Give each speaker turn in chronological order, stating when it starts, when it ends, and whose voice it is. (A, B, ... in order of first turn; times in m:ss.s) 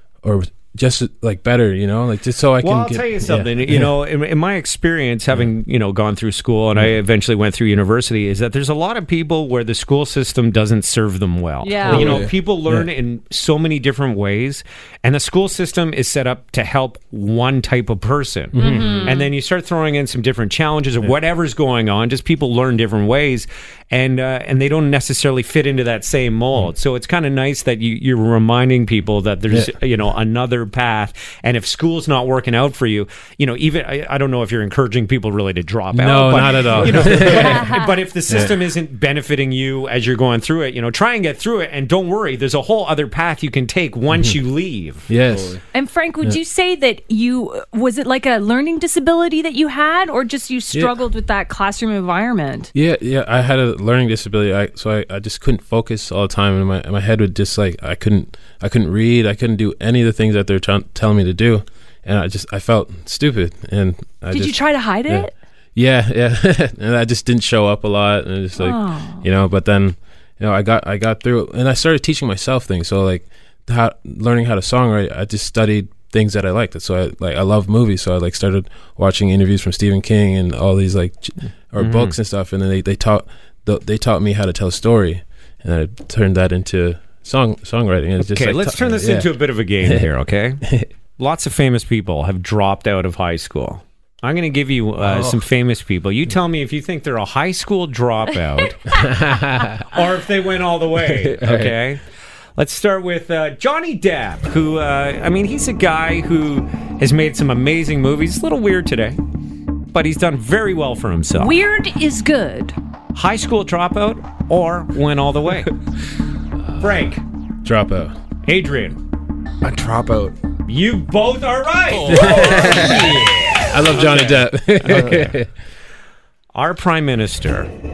0:00.2-0:03.9 A
0:02.6-0:45.1 B
0:11.6-0:12.2 C
0:11.9-0:12.3 D
0:18.5-0:19.1 A
0:18.6-0:19.3 C
0:35.9-0:37.6 A
0:36.8-0:38.0 C
0:38.3-0:38.6 A
0:45.1-0:45.6 A
0:45.2-0:45.6 D
0:45.7-0:52.7 C
0:52.7-1:30.0 A
1:04.3-1:05.3 C
1:08.6-1:09.3 C
1:21.8-1:22.2 B
1:28.2-1:30.6 B
1:30.6-1:30.9 A
1:31.2-1:39.0 B
1:38.6-1:39.0 C
1:38.9-1:39.8 A
1:39.9-1:42.0 B
1:41.1-1:41.8 A
1:42.6-1:49.2 B
1:49.9-1:51.6 B
1:51.3-1:52.8 C
1:53.1-1:55.7 B
1:56.6-1:57.0 A
1:56.8-1:57.2 B
1:57.6-1:58.1 A
1:58.4-1:59.0 B
1:59.6-2:00.3 D
2:00.7-2:05.4 B
2:02.1-2:03.1 A
2:02.1-2:03.4 D
2:03.7-2:05.5 A
2:04.8-2:05.3 D
2:06.6-2:07.7 B